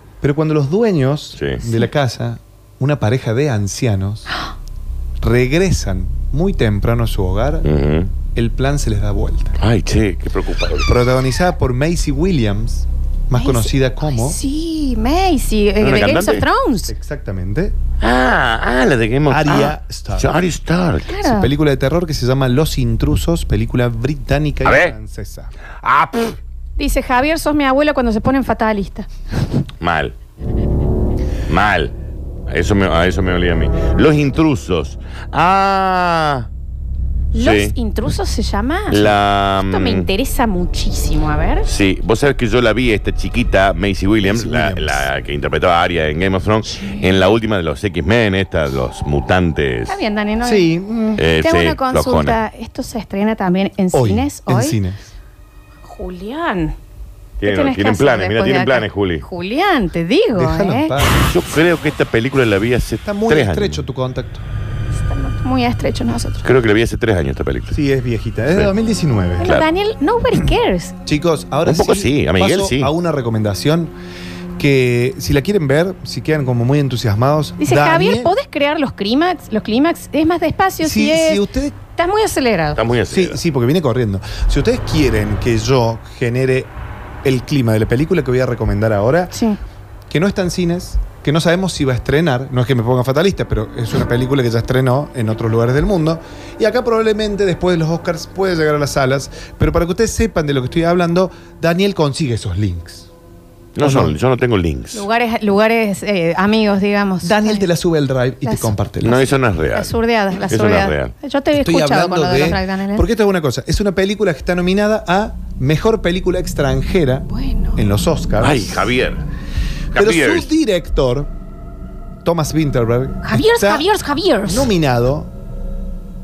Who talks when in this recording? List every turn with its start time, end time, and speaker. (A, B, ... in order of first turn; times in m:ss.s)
0:00.2-0:04.3 A
0:01.6-0:01.9 B
0:05.2-0:07.7 A
0:07.6-0:08.1 C
0:08.3-0:09.6 A
0:09.6-0:10.9 C
0:10.9-0:14.4 A
0:13.4-0:16.9 B
0:15.8-0:16.4 C
0:16.9-0:17.8 A
0:18.0-0:21.1 C
0:19.3-0:20.3 A
0:21.1-0:21.5 B
0:21.2-0:25.5 A
0:24.6-0:24.9 C
0:25.8-0:26.4 C
0:26.8-0:29.1 B
0:29.8-0:30.1 C
0:31.5-0:31.9 C
0:32.5-0:36.5 C
0:37.3-0:41.6 B
0:37.4-0:37.7 C
0:38.9-0:40.1 C
0:41.6-0:50.0 C
0:44.2-0:45.1 A
0:49.9-0:50.7 B
0:50.4-0:51.2 A
0:51.2-0:52.4 C
0:51.4-0:54.8 B
0:53.9-0:55.0 A
0:55.8-0:56.8 B
0:57.4-0:59.2 C
0:57.4-1:00.9 B
1:00.4-1:01.2 A
1:01.2-1:03.8 C
1:03.0-1:04.4 A
1:05.0-1:06.5 B
1:06.4-1:07.8 C
1:07.7-1:09.5 A
1:09.4-1:10.9 B
1:11.1-1:13.9 A
1:11.6-1:12.9 C
1:14.6-1:18.3 A
1:17.6-1:21.4 B
1:20.8-1:21.8 A
1:22.0-1:22.8 B
1:22.8-1:23.4 C
1:23.1-1:26.7 A
1:27.2-1:29.3 A
1:29.3-1:29.6 B
1:30.1-1:43.1 A
1:43.8-1:45.0 C
1:43.8-1:44.1 A
1:44.9-1:47.6 B
1:47.2-1:49.3 A
1:48.4-1:48.7 B
1:49.0-1:49.9 C
1:49.7-1:53.1 B
1:50.5-1:51.1 C
1:51.5-1:58.8 A
1:57.3-1:57.8 B
1:58.4-1:59.2 C
1:59.9-2:00.5 C
1:59.9-2:01.3 A
2:02.2-2:03.8 A
2:03.2-2:04.7 B
2:04.5-2:05.3 A